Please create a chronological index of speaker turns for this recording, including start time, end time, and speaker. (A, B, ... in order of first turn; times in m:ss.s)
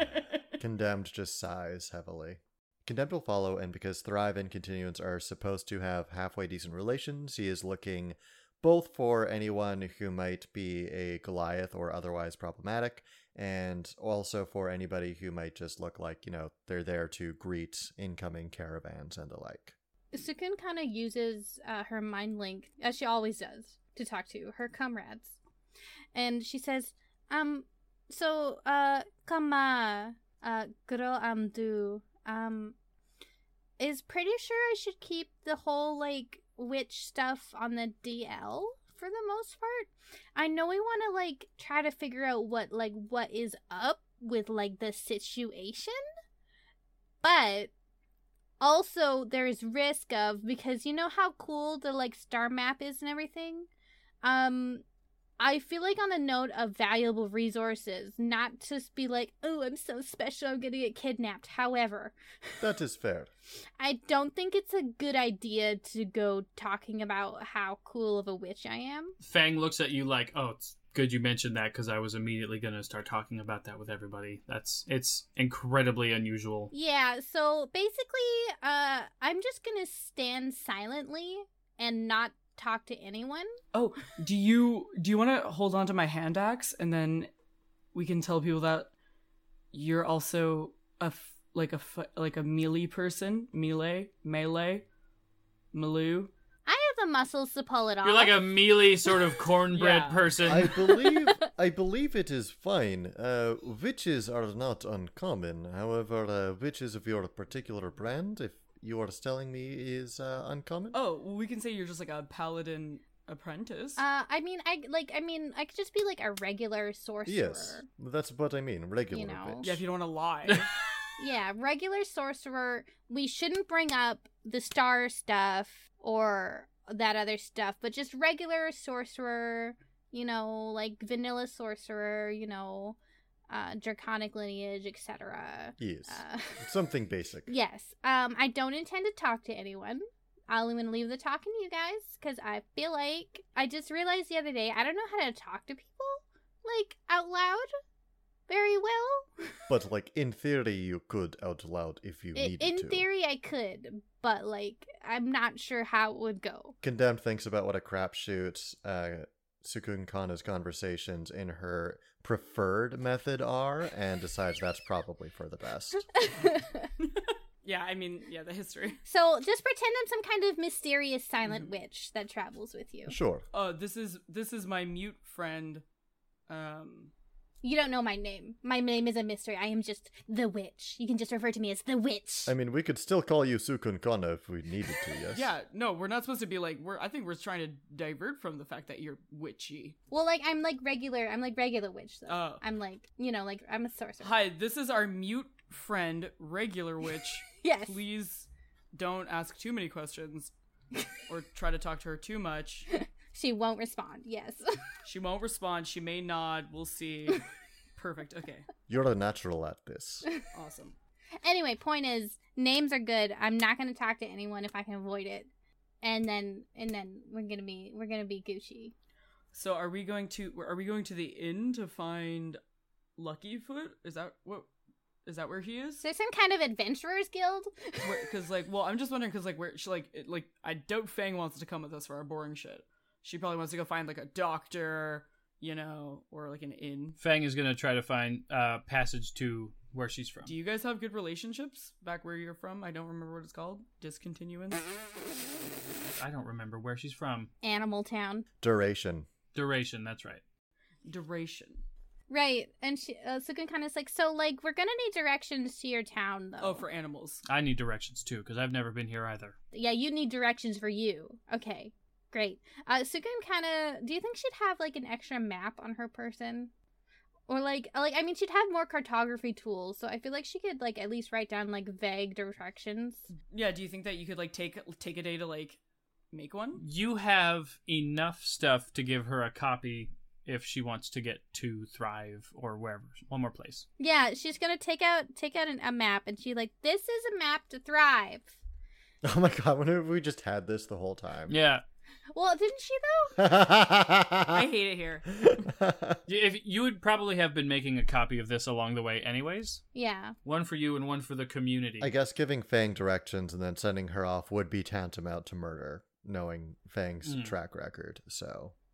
0:00.6-0:19.7 A
0:20.1-0:25.4 B
0:26.1-0:32.7 B
0:33.8-0:46.0 B
0:47.2-0:47.7 B
0:48.6-0:53.7 B
0:54.2-0:54.8 B
0:55.4-1:02.5 B
1:02.6-1:03.3 A
1:03.8-1:09.2 B
1:09.2-1:16.7 C
1:16.7-1:23.6 B
1:23.7-1:27.3 D
1:27.9-1:28.9 D
1:29.7-1:34.9 D
1:35.7-1:36.3 D
1:36.6-1:38.5 B
1:38.0-1:40.8 C
1:39.7-1:40.4 D
1:40.4-1:51.0 A
1:40.8-1:41.4 B
1:50.9-1:54.0 D
1:54.0-1:57.8 B
1:57.2-1:59.8 A
1:59.1-1:59.7 B
1:59.6-2:00.7 D
2:01.2-2:13.0 B
2:13.5-2:16.7 B
2:15.8-2:17.5 A
2:17.5-2:27.7 B
2:28.5-2:29.6 B
2:29.7-2:33.0 A
2:32.3-2:36.8 B
2:36.8-2:46.0 A
2:46.2-2:46.9 B
2:47.0-2:49.0 D
2:49.0-2:53.1 B
2:53.1-2:53.4 A
2:53.5-2:55.8 D
2:56.5-2:57.1 D
2:57.6-3:02.5 B
3:02.5-3:05.5 A
3:05.3-3:10.0 D
3:10.1-3:14.4 B
3:12.3-3:12.6 D
3:14.2-3:20.5 D
3:17.5-3:18.0 B
3:21.3-3:22.9 D
3:23.0-3:24.6 B
3:25.0-3:28.7 D
3:28.9-3:30.3 A
3:30.5-3:30.9 D
3:31.4-3:35.5 B
3:36.0-3:38.9 B
3:39.5-3:42.6 D
3:43.2-3:44.7 D
3:45.2-3:46.0 D
3:46.0-3:48.2 B
3:48.0-3:57.2 D
3:57.2-4:00.5 C
4:00.4-4:04.9 D
4:06.2-4:07.5 C
4:07.6-4:08.4 B
4:08.6-4:09.3 A
4:09.5-4:10.4 C
4:11.0-4:11.8 D
4:12.3-4:16.8 B
4:16.6-4:17.4 D
4:17.4-4:19.6 C
4:19.7-4:26.7 B
4:27.5-4:33.3 B
4:33.4-4:35.8 D
4:36.3-4:36.8 D
4:36.8-4:43.8 C
4:44.0-4:48.6 B
4:49.2-4:51.5 A
4:51.5-4:51.8 C
4:52.3-4:53.4 B
4:53.4-4:54.6 A
4:54.5-4:55.6 D
4:55.4-4:56.2 A
4:56.2-4:59.8 C
4:59.9-5:00.4 B
5:00.4-5:02.1 C
5:02.0-5:08.7 A
5:07.2-5:07.5 C